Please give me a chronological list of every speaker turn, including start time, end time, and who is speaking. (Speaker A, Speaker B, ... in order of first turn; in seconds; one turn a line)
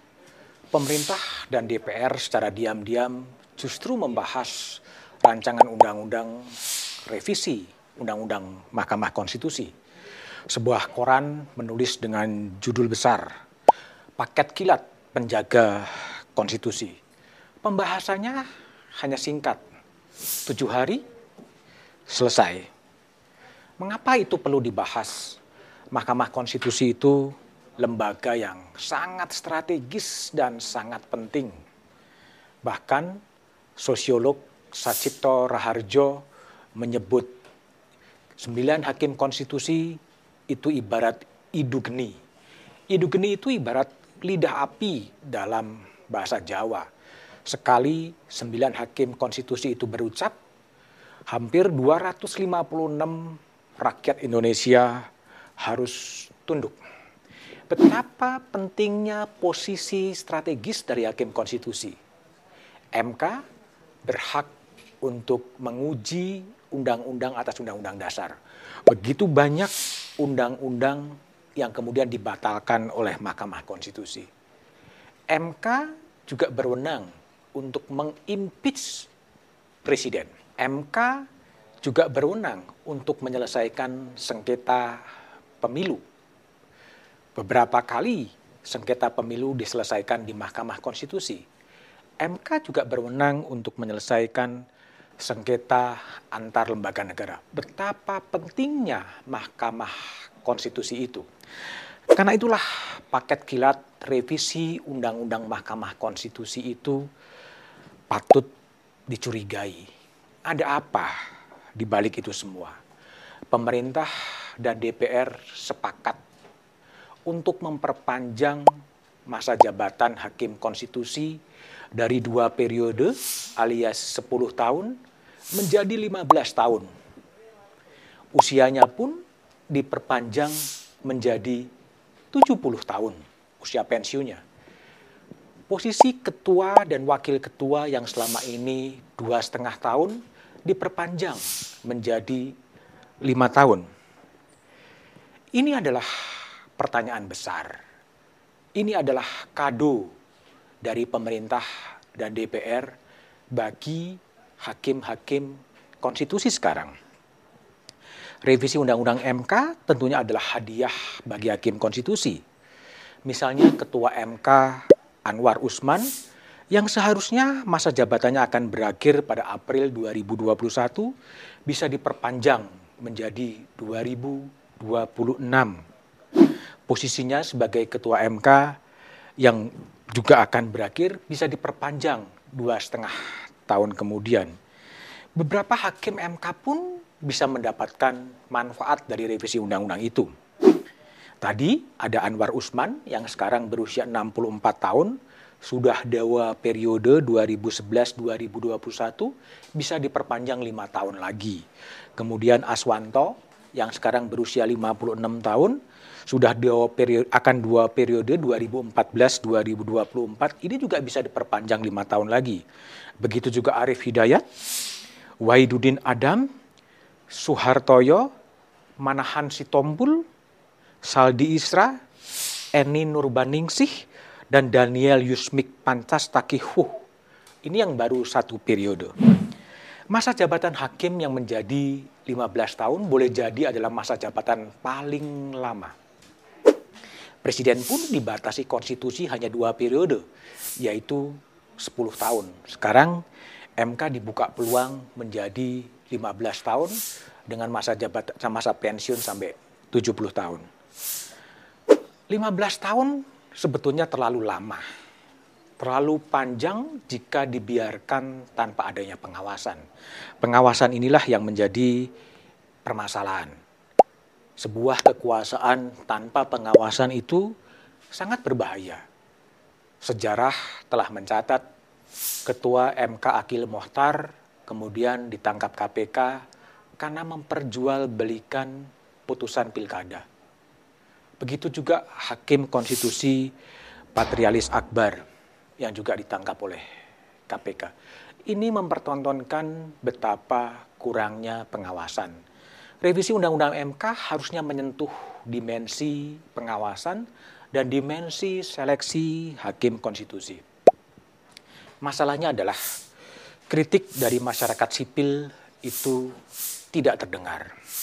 Speaker A: 0.7-9.7
Speaker A: 10.5-13.3
Speaker A: 14.2-17.0
Speaker A: 17.6-18.4
Speaker A: 19.0-19.6
Speaker A: 20.4-21.0
Speaker A: 22.1-22.7
Speaker A: 23.8-25.4
Speaker A: 25.9-31.5
Speaker A: 32.6-33.2
Speaker A: 33.8-36.2
Speaker A: 36.8-37.4
Speaker A: 38.4-40.0
Speaker A: 40.5-42.2
Speaker A: 42.9-46.9
Speaker A: 47.5-50.3
Speaker A: 51.3-55.1
Speaker A: 55.6-56.8
Speaker A: 57.7-62.0
Speaker A: 62.9-63.4
Speaker A: 64.0-64.5
Speaker A: 65.0-68.3
Speaker A: 68.9-74.3
Speaker A: 75.3-79.1
Speaker A: 79.8-81.2
Speaker A: 81.8-85.0
Speaker A: 85.6-86.0
Speaker A: 87.3-91.4
Speaker A: 92.2-94.6
Speaker A: 95.2-101.2
Speaker A: 102.1-107.0
Speaker A: 108.1-108.5
Speaker A: 109.1-109.8
Speaker A: 110.5-111.1
Speaker A: 111.8-112.8
Speaker A: 113.5-116.2
Speaker A: 117.3-118.7
Speaker A: 119.3-121.4
Speaker A: 121.9-125.0
Speaker A: 125.5-126.9
Speaker A: 128.3-131.7
Speaker A: 132.3-134.4
Speaker A: 135.7-142.5
Speaker A: 143.2-143.8
Speaker A: 145.5-147.8
Speaker A: 148.8-150.1
Speaker A: 150.8-152.9
Speaker A: 153.5-156.9
Speaker A: 158.4-162.4
Speaker A: 163.2-166.1
Speaker A: 166.7-171.1
Speaker A: 171.7-175.8
Speaker A: 176.9-178.8
Speaker A: 179.4-184.5
Speaker A: 185.3-190.3
Speaker A: 191.4-201.6
Speaker A: 202.2-212.6
Speaker A: 213.2-214.4
Speaker A: 215.4-216.4
Speaker A: 217.3-218.3
Speaker A: 219.0-220.2
Speaker A: 221.0-221.9
Speaker A: 222.7-226.9
Speaker A: 227.6-229.1
Speaker A: 230.1-235.9
Speaker A: 237.4-240.2
Speaker A: 240.8-243.2
Speaker A: 243.8-247.0
Speaker A: 247.5-250.6
Speaker A: 252.3-254.8
Speaker A: 255.8-259.8
Speaker A: 260.4-262.1
Speaker A: 262.8-263.5
Speaker A: 264.6-267.5
Speaker A: 268.1-269.0
Speaker A: 270.0-271.6
Speaker A: 272.4-276.4
Speaker A: 277.0-280.2
Speaker A: 281.4-283.5
Speaker A: 284.1-285.2
Speaker A: 285.8-286.8
Speaker A: 287.5-287.9
Speaker A: 288.5-292.3
Speaker A: 293.0-300.6
Speaker A: 302.0-302.8
Speaker A: 303.7-306.4
Speaker A: 306.9-307.7